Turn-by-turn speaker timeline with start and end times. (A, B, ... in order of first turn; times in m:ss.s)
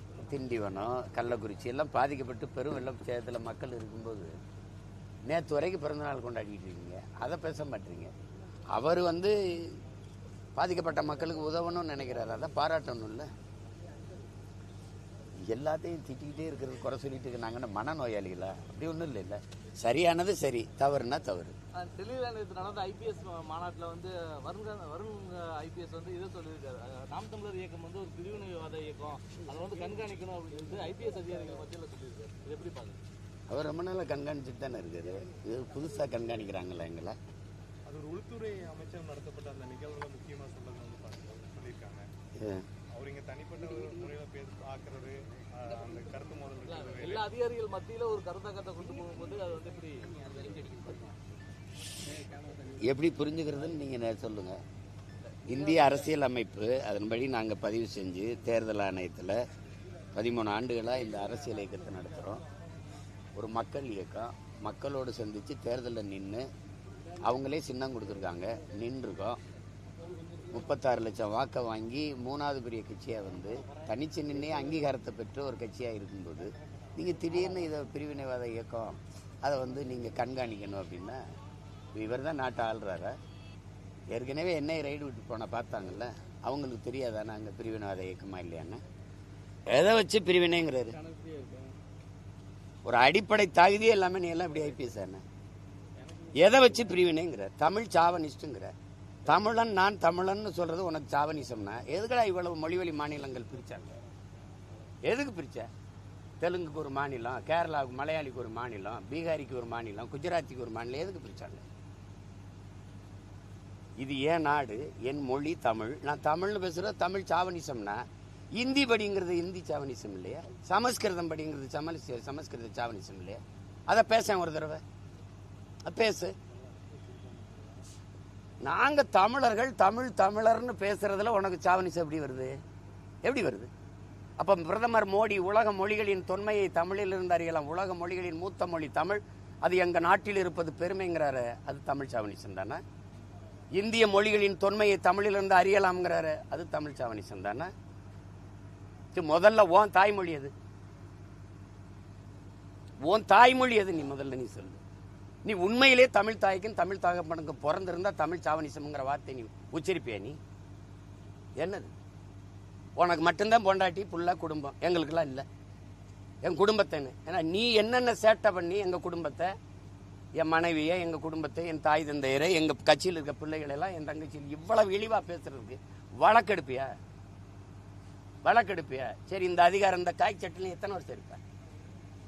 0:00.2-0:04.4 A
0:05.3-0:08.1 A
0:08.7-0:09.8 A
0:10.6-0:13.3 A
0:15.5-0:21.5 A
0:21.7-0:33.0 B
0:33.5-0:37.2 A
0:37.8-0:42.1 C
0:42.4-0:42.6 A
0:42.9-0:47.3 C
0:46.7-0:51.1 B
0:52.7-0:54.6 A
0:55.5-0:59.4 A
1:00.1-1:02.4 A
1:03.3-1:06.5 A
1:07.2-1:09.4 A
1:10.5-1:21.2 A
1:21.9-1:23.1 A
1:24.1-1:28.8 A
1:29.7-1:31.0 A
1:31.0-1:31.7 B
1:32.8-1:35.2 A
1:36.4-1:38.7 A
1:39.2-1:43.9 A
1:45.0-1:45.7 A
1:46.4-1:51.6 A
1:54.0-1:58.0 A
1:58.5-2:04.8 A
2:05.8-2:06.3 A
2:08.6-2:12.6 A
2:13.2-2:13.7 A
2:14.4-2:22.8 A
2:23.7-2:27.7 A
2:29.1-2:30.5 A
2:33.1-2:34.8 A
2:35.4-2:40.4 A
2:41.6-2:41.9 A
2:43.0-2:45.4 A
2:46.4-2:49.5 A
2:50.4-2:56.9 A
2:58.4-3:01.4 A